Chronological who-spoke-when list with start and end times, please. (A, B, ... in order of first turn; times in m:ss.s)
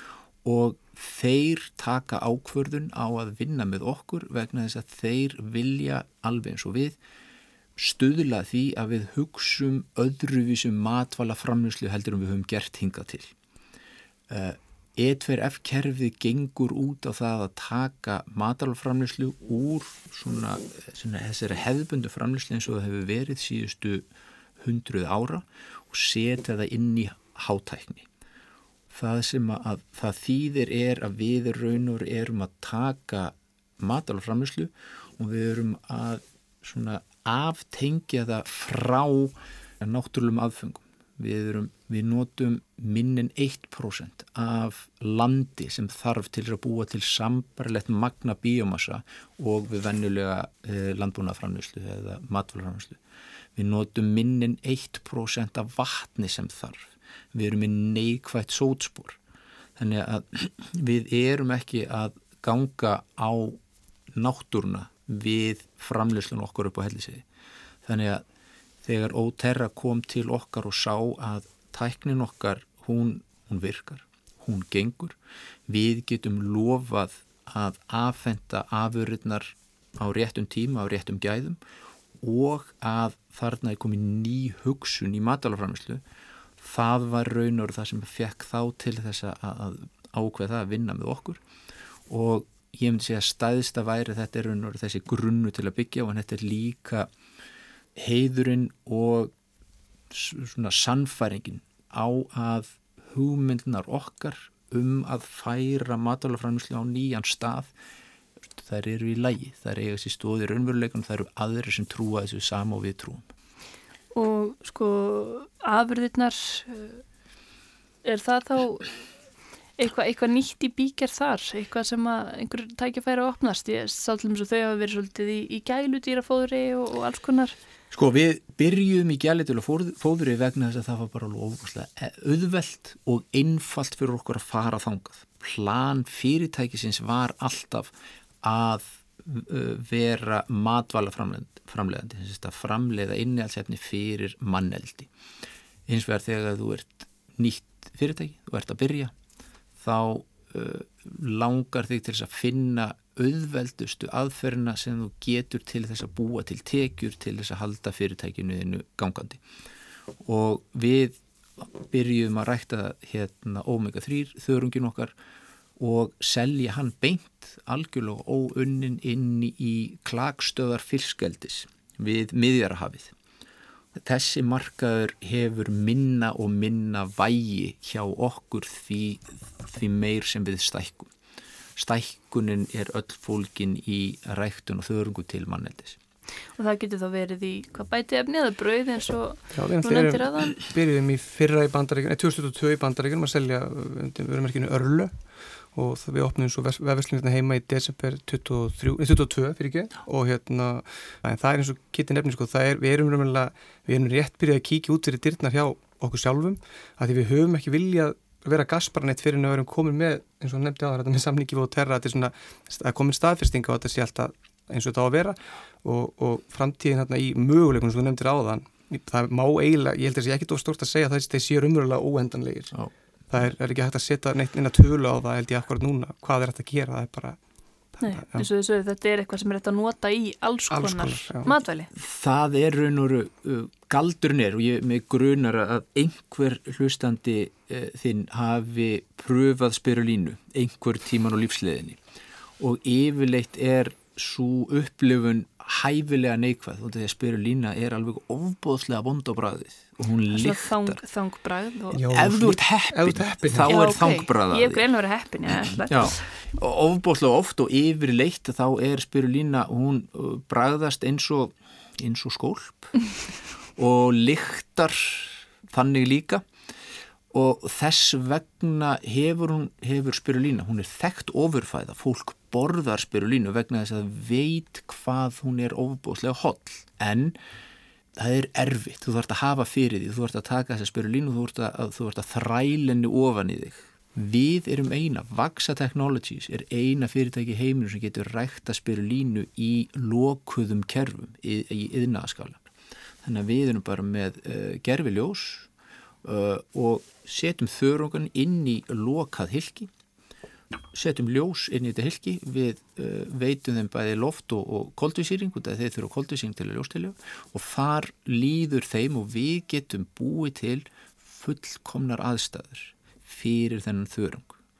0:00.4-0:07.0 A
0:07.8-0:13.3 A
0:14.3-0:24.1 A
0:24.6-0:28.1 A
0:28.9-0:53.0 A
0:53.6-0:59.2 A
0:59.8-1:03.6 A
1:04.2-1:07.2 A
1:07.8-1:08.2 A
1:08.8-1:15.2 A
1:15.7-1:21.6 A
1:22.2-1:26.0 A
1:26.6-1:31.4 A
1:32.1-1:37.1 A
1:38.0-1:39.3 A
1:40.1-1:47.7 A
1:48.6-1:53.3 A
1:54.1-1:57.0 B
1:58.0-1:59.0 B
1:59.8-2:07.6 B
2:07.9-2:17.9 A
2:18.4-2:25.1 A
2:25.9-2:29.1 A
2:29.8-2:39.4 A
2:40.2-2:45.1 A
2:45.8-2:53.1 A
2:54.0-3:01.1 A
3:01.8-3:06.0 A
3:06.6-3:10.6 B
3:09.5-3:42.7 C
3:43.3-3:47.4 C
3:48.0-3:48.5 C
3:48.0-3:51.9 B
3:50.7-3:51.5 C
3:52.0-4:02.0 A
4:02.6-4:11.0 A
4:10.3-4:12.1 B
4:11.9-4:13.8 C
4:12.1-4:14.8 A
4:13.7-4:16.2 B
4:15.9-4:23.2 A
4:23.8-4:26.5 A
4:27.3-4:37.4 A
4:38.2-4:52.7 A
4:53.2-4:55.7 A
4:56.2-4:59.9 A
5:00.9-5:14.6 A